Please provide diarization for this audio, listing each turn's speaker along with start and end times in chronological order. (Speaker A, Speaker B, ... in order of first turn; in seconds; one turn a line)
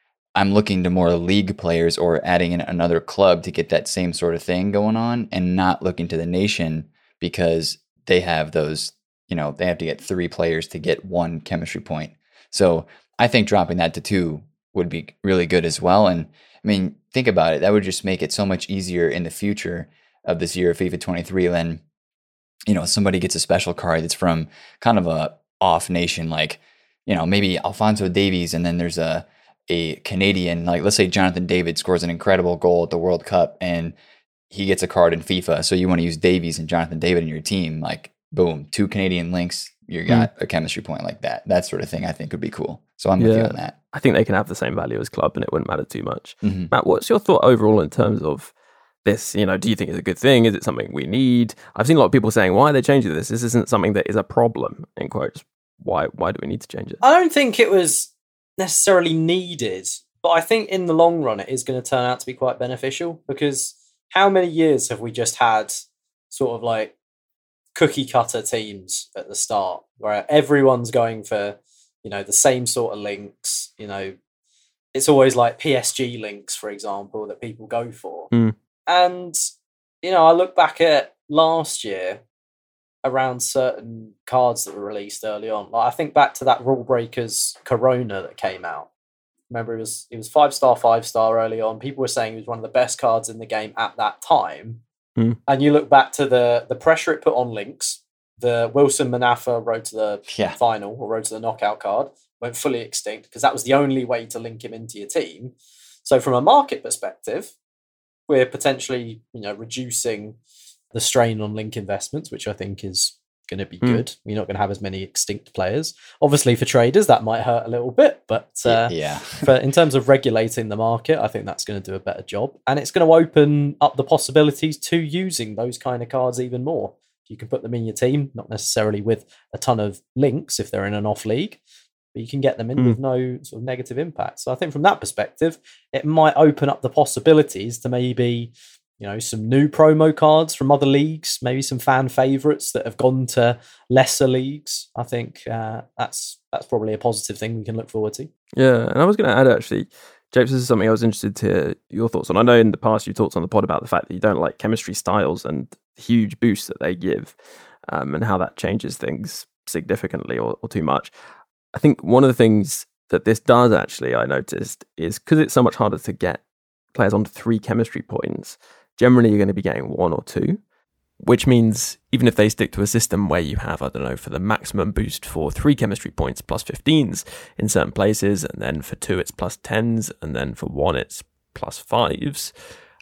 Speaker A: 0.4-21.8
Speaker A: 22.7-34.0
Speaker A: 34.5-43.8
Speaker B: 43.2-48.5
Speaker A: 46.4-46.7
Speaker B: 49.0-57.0
Speaker C: 57.0-67.0
Speaker C: 67.7-74.2
Speaker C: 74.9-78.3
Speaker C: 78.9-79.5
Speaker C: 80.0-82.2
Speaker C: 83.0-88.9
Speaker C: 89.5-94.8
Speaker C: 95.5-105.5
Speaker A: 100.3-100.6
Speaker C: 106.0-107.5
Speaker C: 108.3-110.4
Speaker C: 110.9-131.6
Speaker A: 118.7-119.4
Speaker C: 132.1-148.3
Speaker B: 148.6-157.4
Speaker B: 157.9-161.1
Speaker B: 161.7-166.4
Speaker B: 166.9-170.6
Speaker B: 171.2-182.5